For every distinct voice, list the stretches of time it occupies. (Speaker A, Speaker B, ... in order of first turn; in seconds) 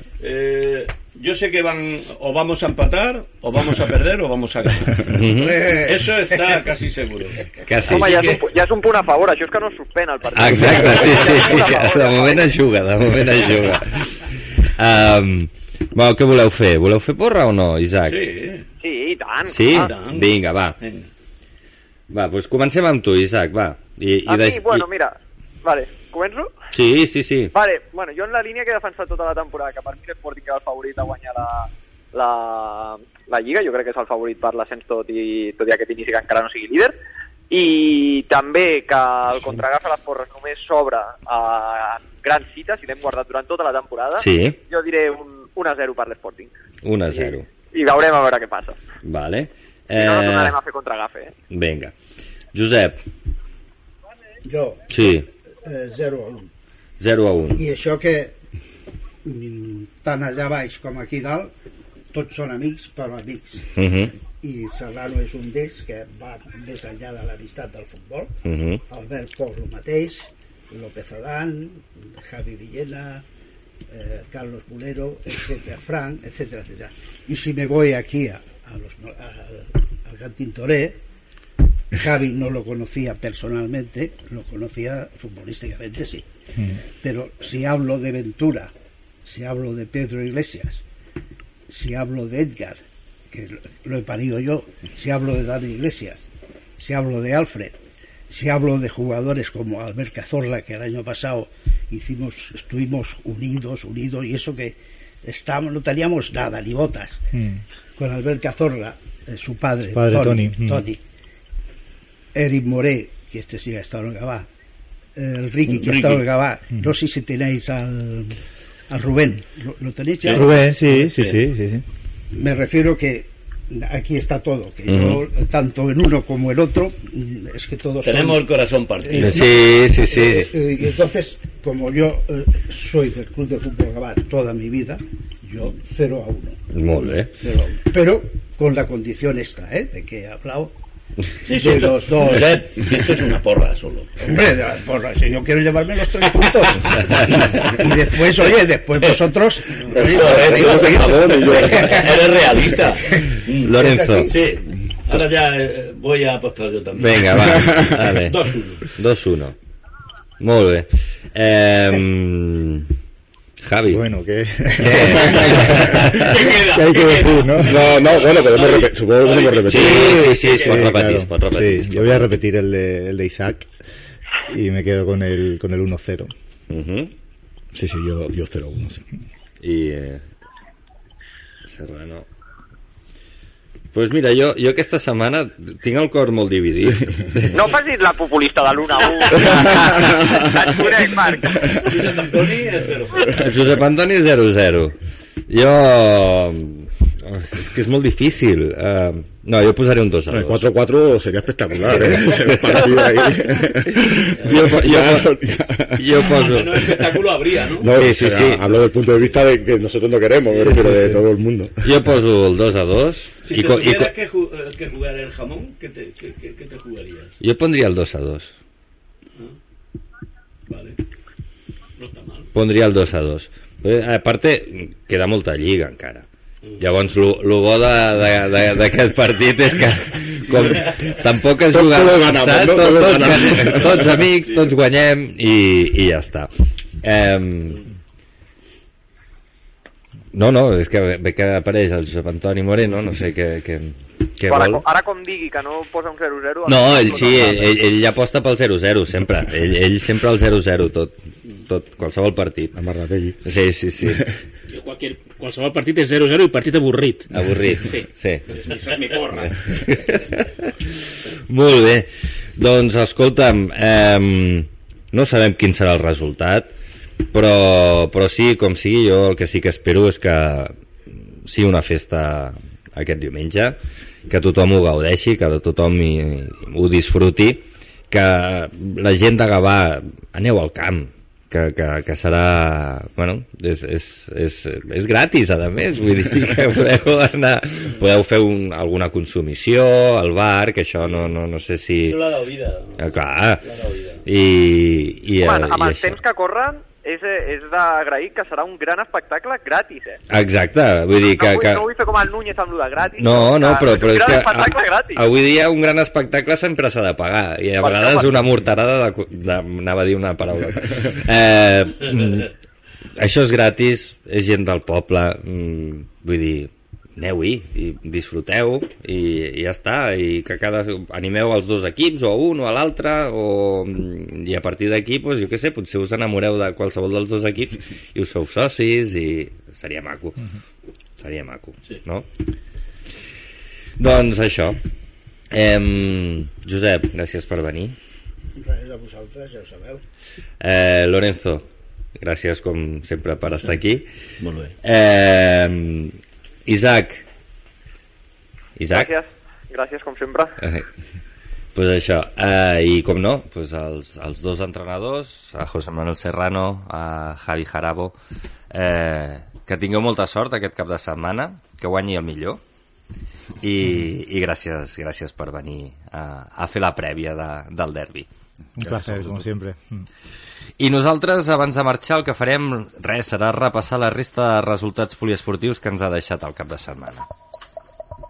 Speaker A: 0.2-8.5, 10.5-11.3, 18.1-18.6, 19.7-21.1, 115.7-116.3, 120.2-121.4, 128.0-129.7, 141.4-144.4, 149.8-158.9, 165.6-170.9, 191.7-193.5, 206.2-208.0, 210.6-211.2, 213.4-217.3, 220.7-221.0, 222.0-222.5, 292.0-294.2, 344.4-344.7
Speaker B: 5.1-5.7, 7.6-8.4, 10.3-18.3, 19.5-20.8, 22.1-24.8, 26.7-27.5, 44.2-44.6, 46.8-47.5, 49.0-50.6, 51.5-51.9, 52.5-53.0, 54.9-55.3, 57.0-57.6, 63.8-64.1, 68.4-68.8, 124.9-125.2, 129.1-130.5, 136.7-137.3, 153.6-154.3, 157.0-159.6, 160.4-162.9, 163.6-164.1, 164.8-166.5, 169.6-172.4, 176.7-177.1, 179.6-180.2, 181.6-182.2, 183.9-187.5, 189.3-190.0, 193.2-194.9, 195.5-200.6, 202.2-203.0, 204.3-205.3, 205.9-207.2, 207.9-208.7, 211.8-214.1, 217.4-218.5, 222.5-226.2, 226.8-236.5, 237.0-237.9, 240.3-244.8, 246.7-252.8, 253.4-254.3, 257.3-258.5, 259.2-260.9, 261.5-266.7, 267.3-270.7, 271.4-292.2, 293.0-293.6, 294.2-296.2, 300.3-301.9, 303.2-312.5, 313.1-330.4, 331.2-332.3, 334.0-334.8, 335.5-337.9, 340.6-341.6, 342.2-344.1, 344.8-347.2, 348.8-349.1, 350.6-350.9, 351.7-358.1, 358.7-362.6, 363.6-368.3, 370.8-377.2
Speaker C: 5.1-6.5, 54.4-56.5, 57.5-58.4, 59.2-61.5, 62.1-63.8, 64.4-68.3, 68.9-73.2, 73.9-81.0, 81.9-86.2, 87.0-88.7, 89.2-90.8, 91.7-107.2, 108.0-111.0, 112.3-114.5, 115.1-118.4, 118.9-120.5, 122.3-140.7, 141.5-143.0, 144.2-154.6, 338.6-340.0
Speaker D: 7.9-12.6, 18.8-19.9, 24.3-26.5, 27.5-36.9, 37.5-46.5, 47.1-48.8, 49.9-51.3, 187.5-191.6, 244.5-247.7, 295.4-300.2, 301.3-305.2, 307.8-308.3, 348.9-350.6
Speaker E: 107.3-107.6, 109.9-110.8, 120.3-121.8, 163.9-165.6, 166.5-167.9, 170.1-173.7, 174.5-176.3, 368.8-370.1
Speaker F: 149.9-152.1, 165.6-165.9, 167.6-170.3, 177.7-179.0, 191.6-192.2, 200.3-206.8, 207.7-212.0, 231.7-234.2, 252.7-253.4, 254.0-254.3, 368.9-369.1
Speaker G: 254.7-259.6